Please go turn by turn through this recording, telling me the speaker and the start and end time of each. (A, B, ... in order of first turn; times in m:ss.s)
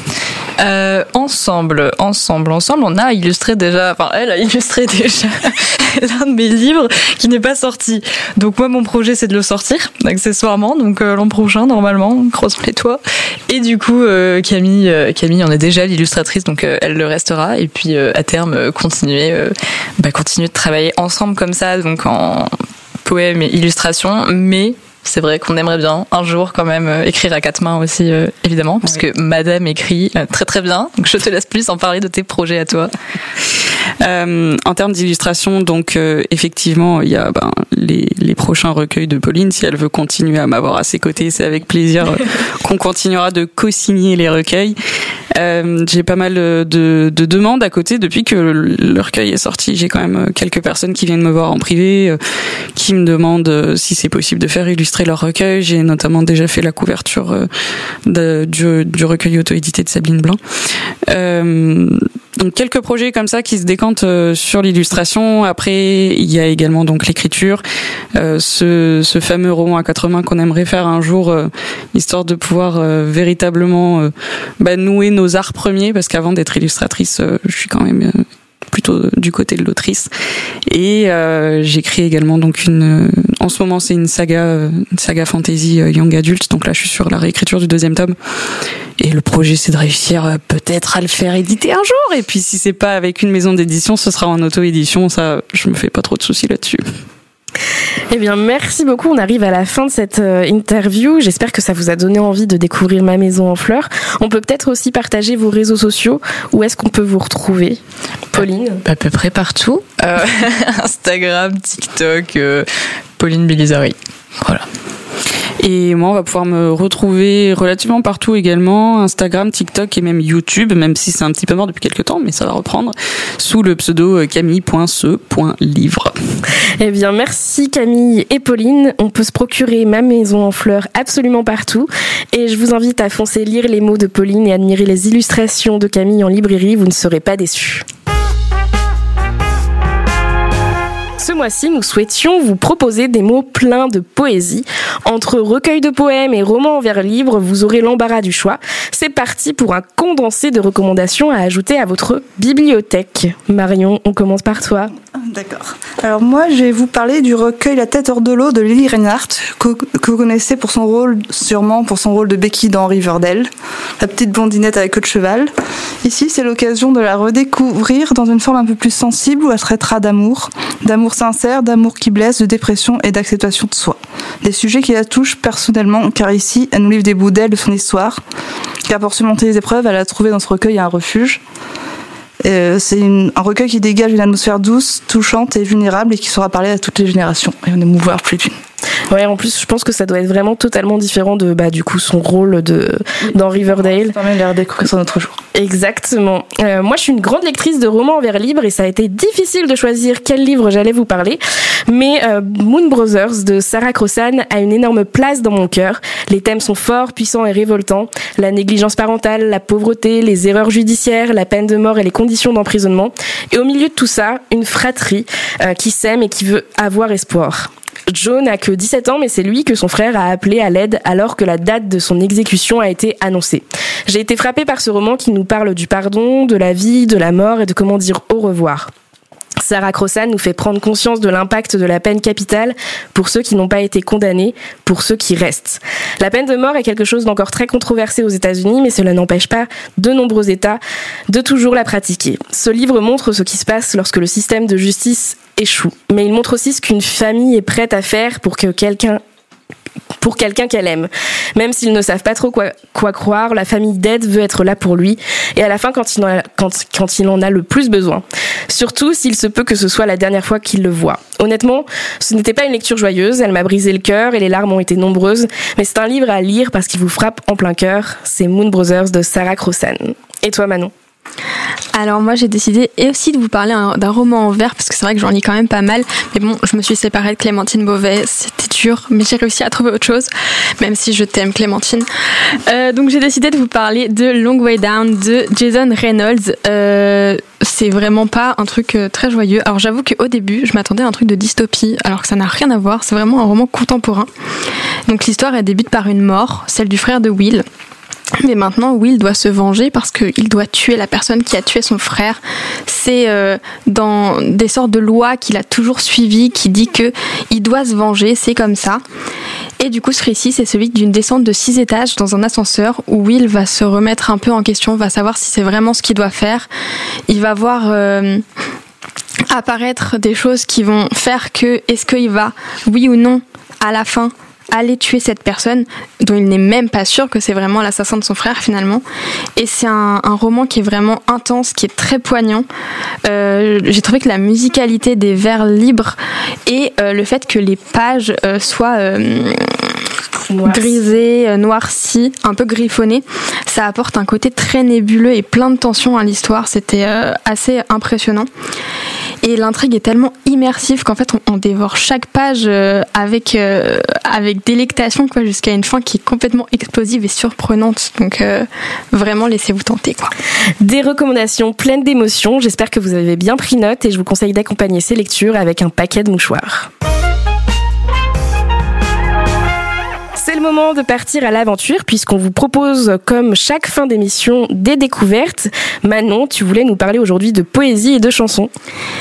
0:00.6-0:32.9 A
0:34.0-0:44.8 B
0:45.3-0:52.2 B
0:52.8-0:57.5 B
0:58.1-1:00.4 B
1:01.1-1:07.6 B
1:08.2-1:20.1 B
1:20.7-1:28.2 B
1:29.0-1:36.8 B
1:38.1-1:47.8 C
1:48.3-1:48.8 C
1:48.8-1:54.6 A
1:55.6-2:06.1 B
2:06.8-2:17.9 C
2:21.2-2:34.9 C
2:35.2-2:43.5 D
2:44.0-2:45.5 D
2:46.0-2:58.2 D
2:58.9-3:01.4 D
3:02.4-3:08.6 D
3:09.1-3:14.2 C
3:14.1-3:15.4 D
3:15.5-3:48.9 C
3:49.6-4:09.2 C
4:10.2-4:30.9 C
4:31.9-4:54.3 E
4:55.1-4:57.7 E
4:58.4-5:09.0 E
5:09.8-5:16.7 E
5:17.3-5:18.4 E
5:19.5-5:29.0 E
5:29.6-5:32.7 E
5:33.2-5:40.0 E
5:40.5-5:41.0 C
5:40.6-5:48.5 E
5:49.4-6:00.3 E
6:00.8-6:06.9 C
6:10.4-6:18.7 C